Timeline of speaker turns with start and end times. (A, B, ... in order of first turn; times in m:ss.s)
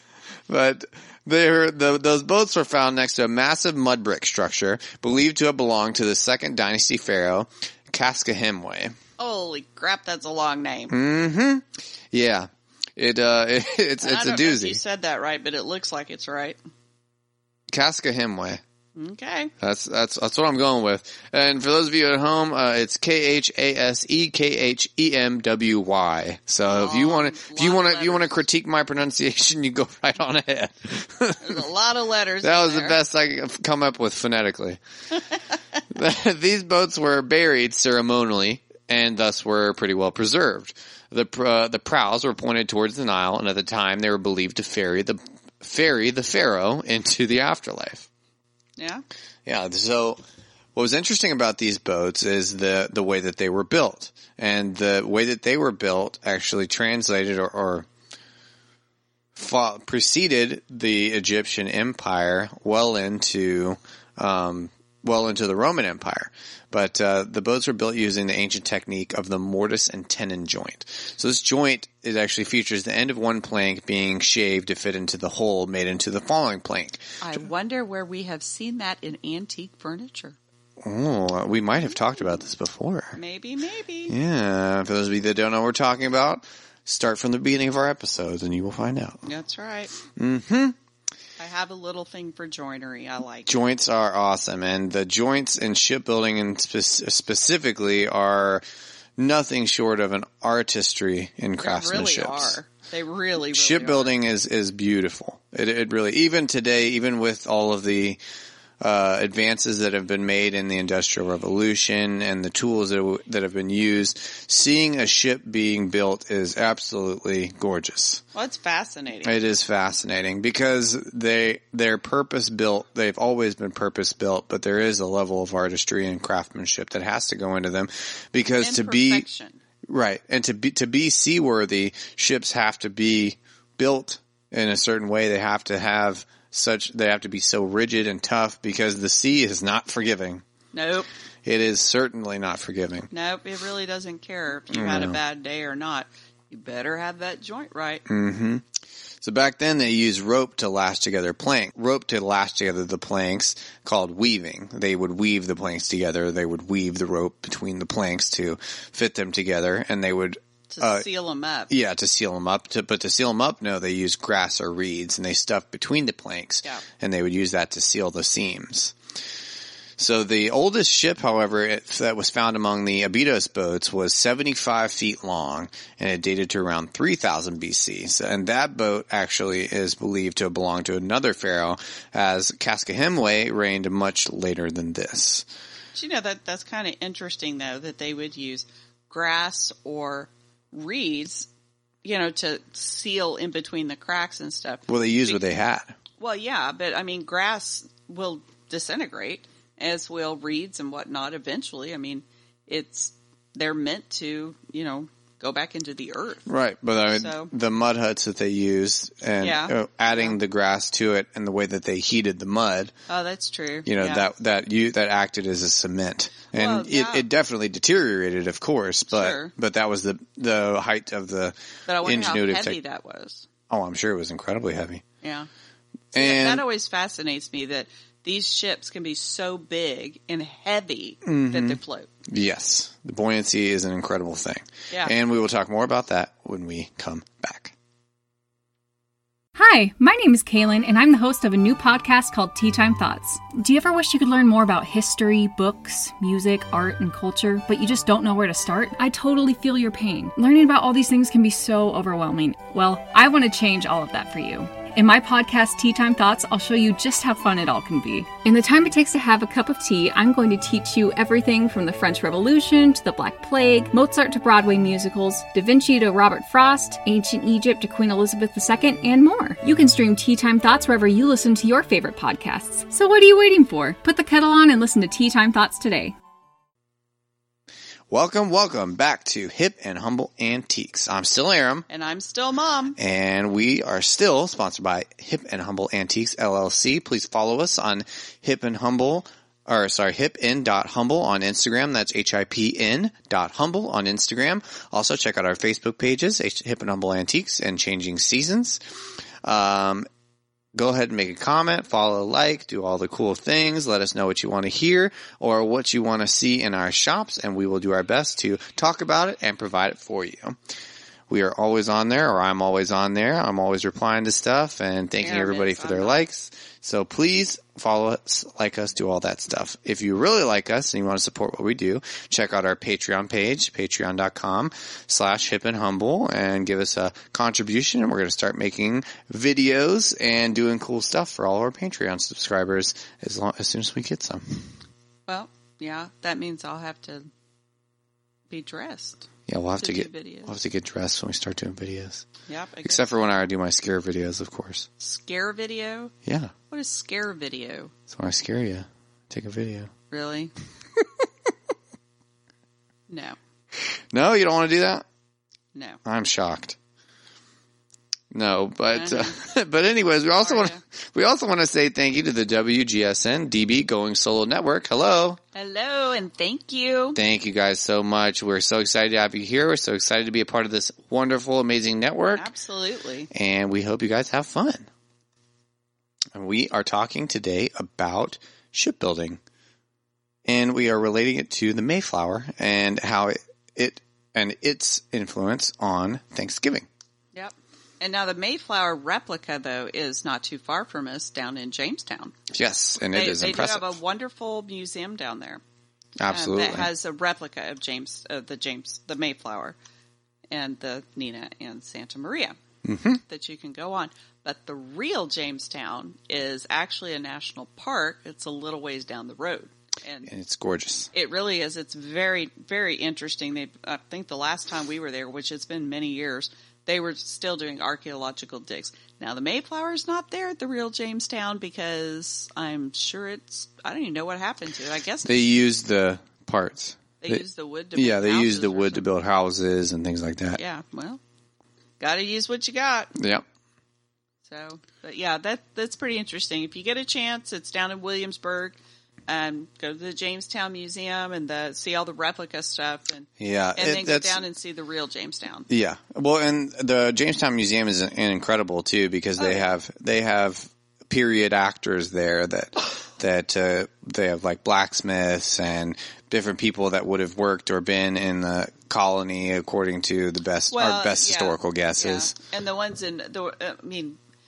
0:00.5-0:09.0 A
0:09.2-0:10.9 B
0:10.9-0:14.8 A
0:14.0-0:16.6 B
0:17.7-0:18.6 A
0:18.9-0:19.5 B
0:19.6-0:31.6 A
0:26.7-0:28.4 B
0:31.4-0:33.0 B
0:32.4-0:34.8 A
0:35.9-0:48.1 A
0:48.8-0:49.0 B
0:49.4-0:50.2 A
0:50.7-0:57.9 A
0:59.4-1:17.4 A
1:17.2-1:20.4 B
1:20.8-1:23.2 A
1:23.2-1:24.1 B
1:24.1-1:29.2 A
1:29.2-1:29.9 B
1:30.1-1:30.8 A
1:31.4-1:33.5 B
1:33.5-1:38.6 A
1:39.2-1:42.6 A
1:41.6-1:44.2 B
1:43.5-1:48.2 A
1:48.8-1:58.2 A
1:58.3-1:59.4 B
1:59.2-2:09.2 A
2:08.6-2:09.6 B
2:09.8-2:20.4 A
2:20.7-2:21.1 B
2:21.4-2:23.1 A
2:23.1-2:28.0 B
2:24.7-2:25.2 A
2:28.1-2:28.6 A
2:29.2-2:41.1 A
2:40.7-2:41.7 B
2:41.7-2:49.0 A
2:50.0-3:05.4 A
3:05.9-3:11.5 B
3:12.0-3:15.4 B
3:14.9-3:15.9 A
3:16.2-3:26.5 B
3:26.4-3:32.9 A
3:27.0-3:27.5 B
3:29.4-3:30.4 B
3:33.1-3:34.3 B
3:33.8-3:42.8 A
3:36.5-3:37.2 B
3:39.1-3:39.5 B
3:41.9-3:43.5 B
3:43.7-3:45.0 A
3:45.2-3:45.5 B
3:46.1-3:52.1 B
3:46.1-3:46.6 A
3:51.2-3:57.7 A
3:59.6-4:36.1 C
4:38.1-4:41.8 A
4:41.9-4:43.0 B
4:43.0-4:58.8 A
4:59.4-5:00.1 A
5:00.7-5:10.6 A
5:11.3-5:34.6 A
5:15.2-5:16.2 B
5:35.3-5:37.2 B
5:38.5-5:39.3 B
5:39.5-5:42.2 A
5:39.8-5:40.6 B
5:42.5-5:43.1 B
5:42.8-5:44.9 A
5:45.0-5:46.1 B
5:46.2-5:46.5 A
5:46.7-5:47.9 B
5:48.1-5:49.9 A
5:50.1-5:50.5 B
5:53.1-5:53.4 B
5:54.1-5:55.0 A
5:55.7-5:56.0 B
5:56.0-5:56.8 A
5:58.3-6:05.4 A
5:58.9-5:59.4 B
6:00.4-6:00.8 B
6:05.5-6:07.2 B
6:07.1-6:12.5 A
6:12.3-6:13.3 B
6:13.3-6:14.9 A
6:16.3-6:19.4 A
6:20.4-6:26.9 A
6:27.3-6:32.4 B
6:32.5-6:34.0 A
6:33.1-6:35.6 B
6:36.2-6:36.9 A
6:36.3-6:39.8 B
6:40.5-6:42.6 B
6:42.8-6:43.2 A
6:43.2-6:50.3 B
6:50.3-6:51.1 A
6:51.1-7:05.6 B
7:05.2-7:07.4 A
7:07.2-7:09.0 B
7:07.9-7:10.6 A
7:10.6-7:11.2 B
7:12.0-7:13.1 B
7:13.2-7:13.4 A
7:14.4-7:18.8 B
7:19.3-7:25.7 B
7:23.4-7:24.4 A
7:25.7-7:42.3 A
7:29.4-7:29.7 B
7:40.7-7:44.2 B